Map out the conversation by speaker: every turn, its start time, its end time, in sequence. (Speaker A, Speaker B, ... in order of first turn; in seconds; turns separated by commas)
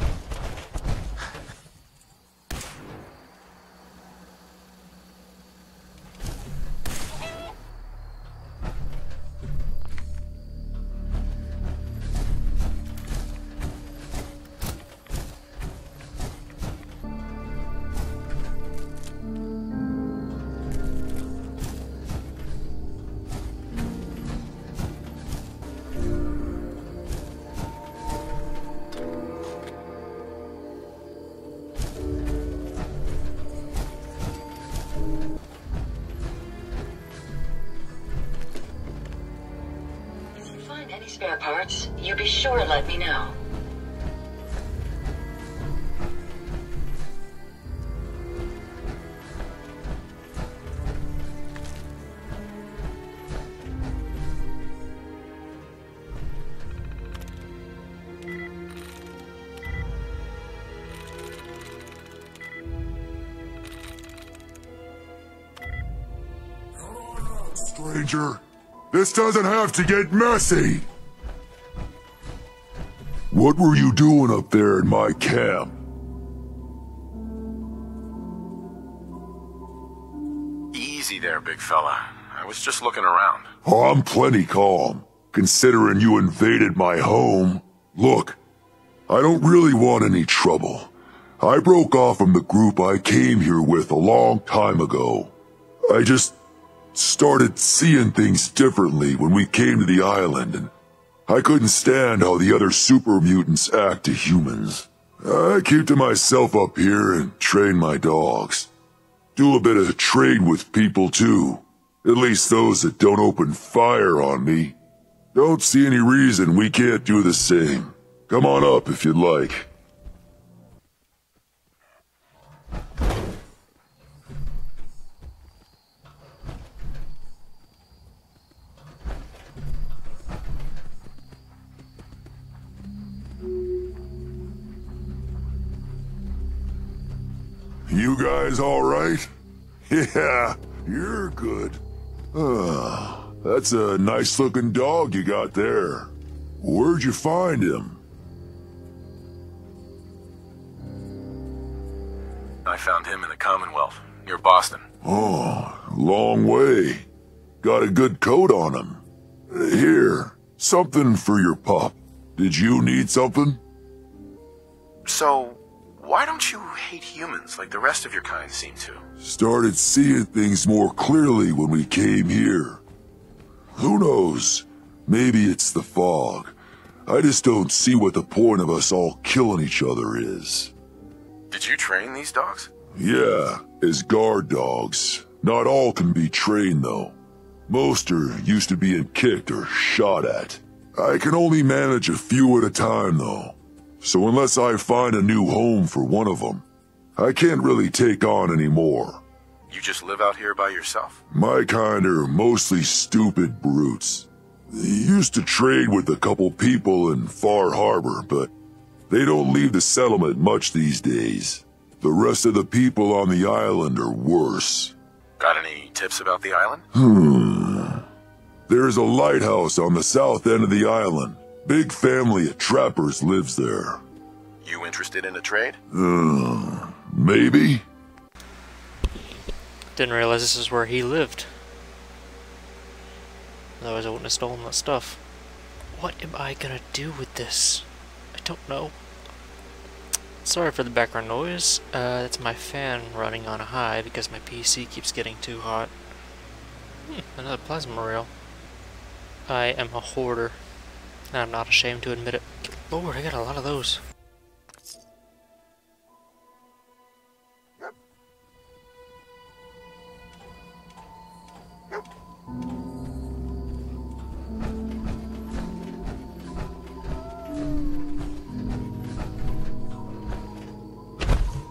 Speaker A: 40.3-43.4, Speaker B: 66.8-70.8, Speaker B: 73.3-75.7, Speaker C: 80.7-83.5, Speaker B: 83.6-88.4, Speaker B: 89.1-95.3, Speaker B: 95.9-96.3, Speaker B: 96.9-100.7, Speaker B: 101.3-108.7, Speaker B: 109.3-114.8, Speaker B: 115.3-119.7, Speaker B: 137.9-139.3, Speaker B: 139.9-141.8, Speaker B: 142.3-148.0, Speaker C: 152.6-154.8, Speaker B: 155.0-157.1, Speaker B: 157.6-163.6, Speaker C: 165.0-169.0, Speaker B: 169.2-172.8, Speaker B: 173.8-176.5, Speaker B: 177.1-180.7, Speaker C: 181.5-182.7, Speaker B: 182.9-187.1, Speaker B: 187.7-199.2, Speaker C: 199.7-201.2, Speaker B: 201.3-208.5, Speaker B: 209.1-214.9, Speaker C: 215.4-216.8, Speaker B: 216.9-218.0, Speaker B: 218.7-224.0, Speaker C: 224.6-225.8, Speaker B: 225.9-227.8, Speaker D: 229.9-231.5, Speaker D: 233.8-235.2, Speaker D: 235.9-238.9, Speaker D: 240.4-245.9, Speaker D: 247.1-248.3, Speaker D: 249.4-250.6, Speaker D: 251.3-254.0